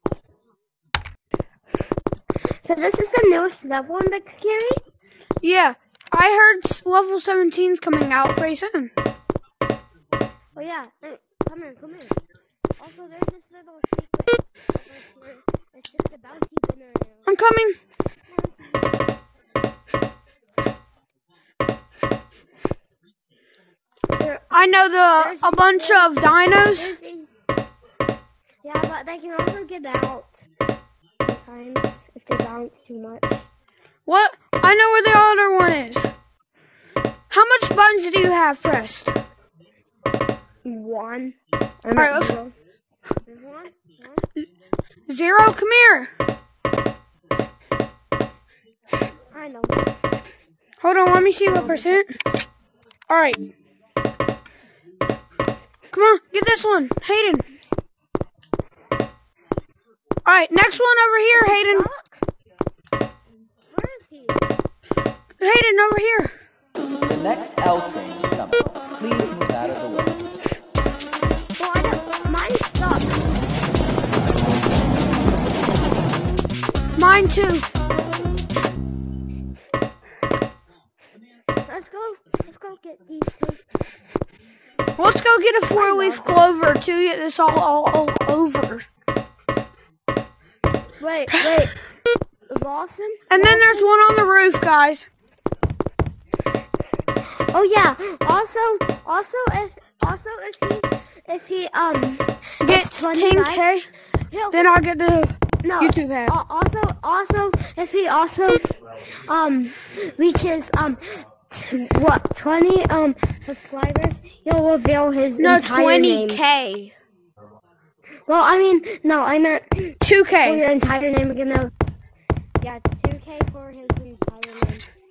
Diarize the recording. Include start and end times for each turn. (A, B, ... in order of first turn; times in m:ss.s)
0:02.6-0:04.8 A
0:05.4-0:08.9 B
0:10.6-0:12.2 A
0:12.8-0:17.3 A
0:17.3-0:17.8 B
0:18.3-0:18.9 A
0:24.2-0:24.5 A
0:24.5-0:26.9 B
0:25.2-0:26.1 A
0:26.8-0:27.3 A
0:28.6-0:30.4 A
0:31.2-0:33.5 A
0:34.1-0:36.1 B
0:37.3-0:39.1 B
0:40.6-0:42.5 A
0:42.0-0:42.4 B
0:43.3-0:44.2 A
0:45.1-0:46.1 B
0:49.3-0:49.9 A
0:50.8-0:52.1 B
0:51.5-0:52.0 A
0:53.1-0:53.4 B
0:55.9-0:57.4 B
1:00.2-1:01.9 B
1:01.3-1:02.2 A
1:03.7-1:04.4 A
1:05.4-1:06.3 B
1:07.0-1:10.1 C
1:11.6-1:13.2 A
1:17.0-1:17.7 B
1:21.7-1:23.6 A
1:25.0-1:28.9 B
1:25.7-1:26.4 A
1:31.0-1:31.7 A
1:32.5-1:33.9 A
1:33.3-1:35.1 B
1:37.5-1:43.7 A
1:42.6-1:43.9 B
1:44.3-1:44.8 A
1:44.5-1:46.3 B
1:45.6-1:48.7 A
1:49.3-1:56.4 A
1:55.4-1:57.0 B
1:58.3-2:01.7 A
2:00.0-2:00.6 B
2:02.6-2:04.9 A